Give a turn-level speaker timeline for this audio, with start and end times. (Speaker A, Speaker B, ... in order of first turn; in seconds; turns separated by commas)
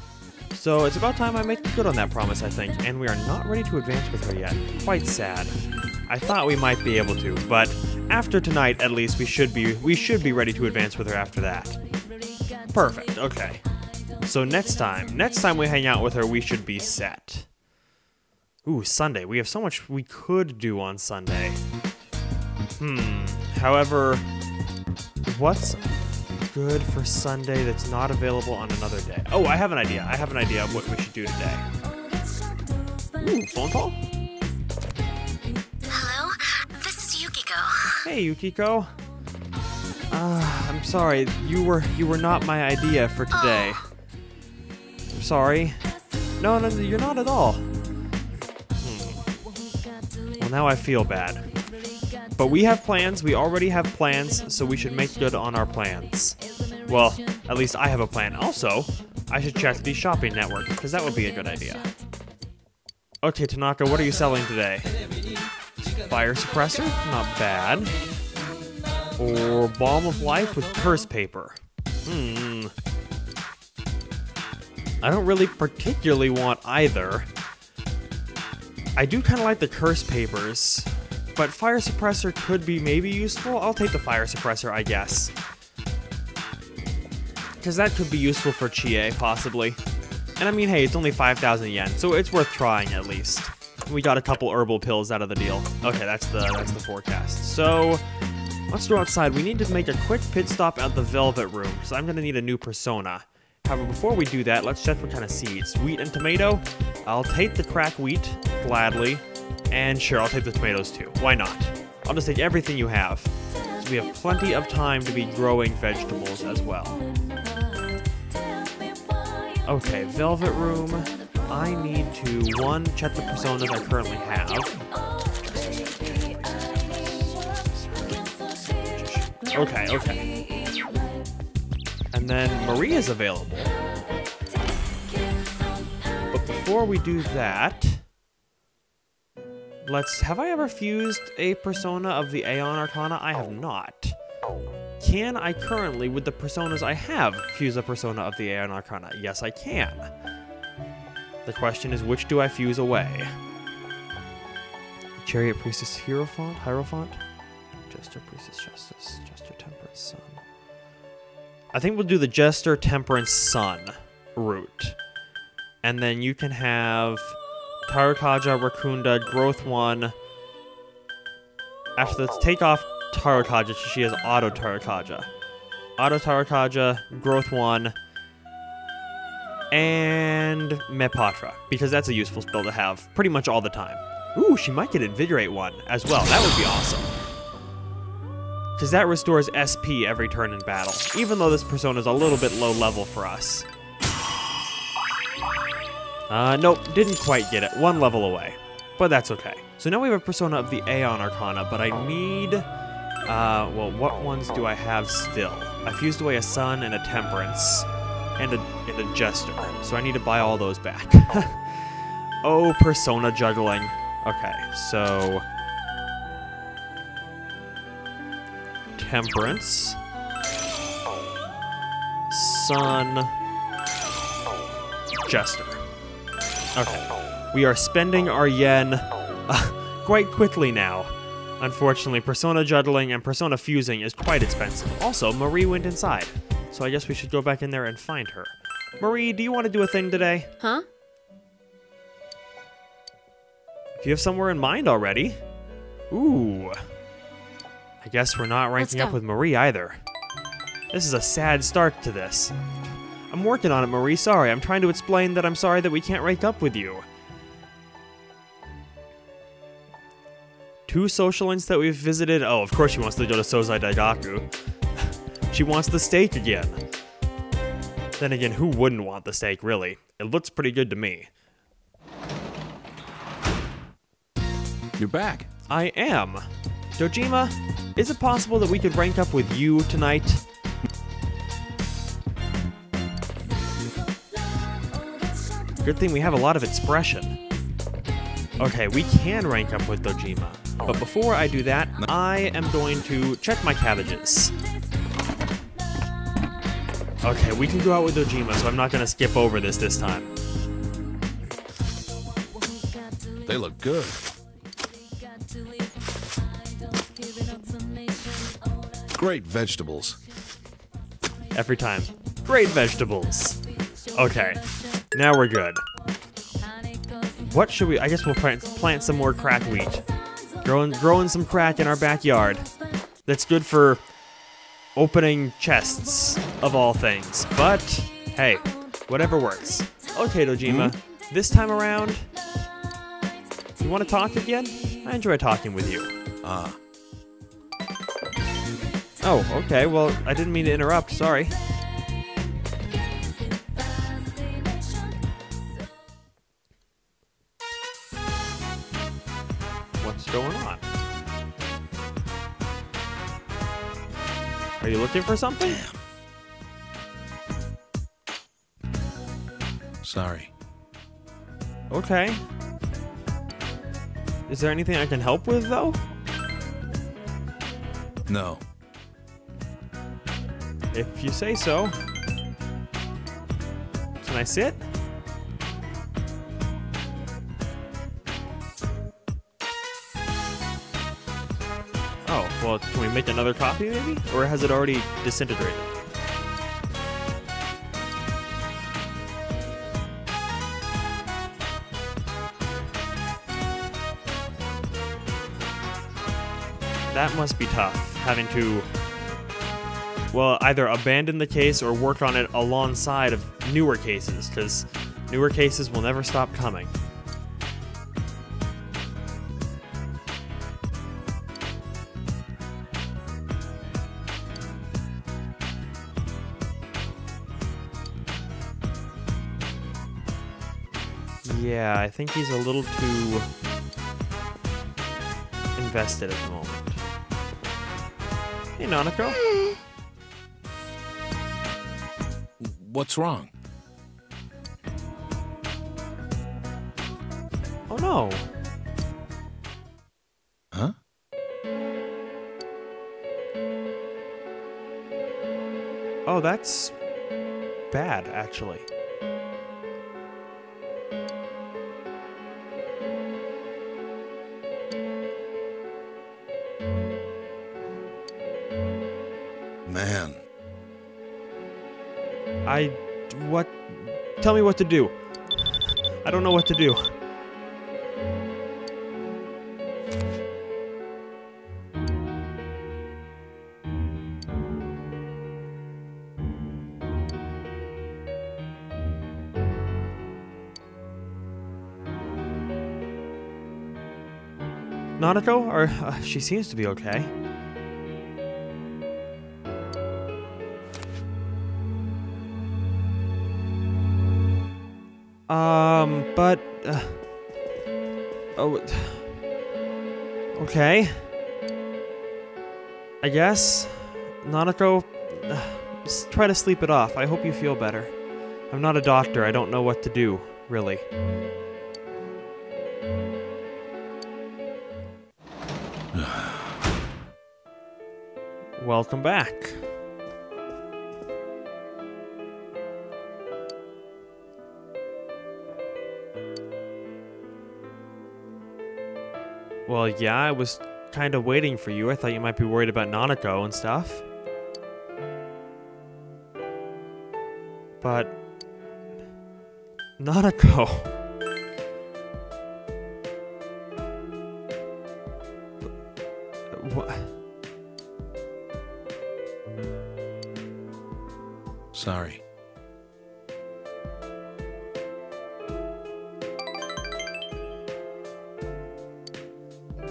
Speaker A: 0.5-11.8, Speaker A: 12.7-13.6, Speaker A: 14.2-17.5, Speaker A: 18.6-21.6, Speaker A: 22.8-24.3, Speaker A: 25.2-25.9, Speaker A: 26.5-31.6, Speaker A: 33.2-34.0, Speaker B: 35.9-38.0, Speaker A: 38.0-38.9, Speaker A: 40.1-43.9, Speaker A: 45.1-45.8, Speaker A: 46.4-47.7, Speaker A: 48.8-49.2, Speaker A: 50.4-51.5, Speaker A: 52.4-61.9, Speaker A: 63.2-64.9, Speaker A: 66.0-67.9, Speaker A: 69.2-72.7, Speaker A: 75.0-77.3, Speaker A: 79.0-85.3, Speaker A: 87.6-89.8, Speaker A: 90.4-98.0, Speaker A: 98.7-117.0, Speaker A: 119.7-124.8, Speaker A: 126.3-128.0, Speaker A: 128.7-130.3, Speaker A: 132.1-133.7, Speaker A: 136.3-138.1, Speaker A: 139.8-144.2, Speaker A: 145.0-150.1, Speaker A: 151.4-153.3, Speaker A: 155.2-157.2, Speaker A: 157.9-160.4, Speaker A: 161.7-165.0, Speaker A: 165.8-170.1, Speaker A: 172.0-175.3, Speaker A: 176.0-177.9, Speaker A: 179.7-187.2, Speaker A: 188.8-193.7, Speaker A: 196.3-202.7, Speaker A: 203.3-215.5, Speaker A: 219.0-220.0, Speaker A: 222.3-223.3, Speaker A: 225.2-225.8, Speaker A: 226.8-240.5, Speaker A: 244.0-245.4, Speaker A: 246.1-246.8, Speaker A: 248.0-250.0, Speaker B: 248.8-249.2, Speaker A: 250.9-252.6, Speaker A: 253.3-257.1, Speaker A: 260.9-266.8, Speaker A: 268.2-271.3, Speaker C: 275.0-275.5, Speaker A: 275.7-276.5, Speaker A: 277.0-280.4, Speaker A: 285.8-287.4, Speaker A: 288.6-294.5, Speaker A: 297.2-300.3, Speaker C: 303.5-304.3, Speaker C: 309.1-310.2, Speaker A: 311.5-313.6, Speaker A: 314.1-315.8, Speaker A: 317.4-320.1, Speaker A: 320.6-322.7, Speaker A: 323.2-324.1, Speaker A: 324.9-332.3, Speaker C: 330.6-330.9, Speaker A: 333.8-336.1, Speaker C: 336.4-336.8, Speaker A: 339.2-341.6, Speaker A: 350.0-350.9, Speaker A: 354.8-355.8, Speaker C: 355.6-356.0, Speaker C: 360.0-360.5, Speaker A: 361.9-362.4, Speaker A: 364.5-366.0, Speaker C: 368.3-368.6, Speaker A: 370.9-371.9, Speaker A: 374.2-374.8, Speaker A: 382.3-385.9, Speaker A: 397.1-398.9, Speaker A: 400.3-406.9, Speaker A: 421.4-423.5, Speaker A: 425.8-427.0, Speaker A: 428.8-429.5, Speaker C: 432.6-433.5, Speaker A: 437.9-438.5, Speaker A: 446.3-447.0, Speaker A: 447.9-448.9, Speaker C: 459.9-460.4, Speaker A: 462.6-467.1, Speaker A: 485.2-487.3, Speaker A: 495.5-497.2, Speaker A: 498.6-499.3, Speaker A: 500.6-501.3, Speaker A: 503.2-508.2, Speaker A: 508.7-511.1, Speaker C: 516.1-516.6, Speaker A: 518.8-519.8, Speaker A: 529.9-534.2, Speaker A: 538.0-538.4, Speaker A: 540.2-541.1, Speaker A: 546.7-547.4, Speaker C: 551.9-552.4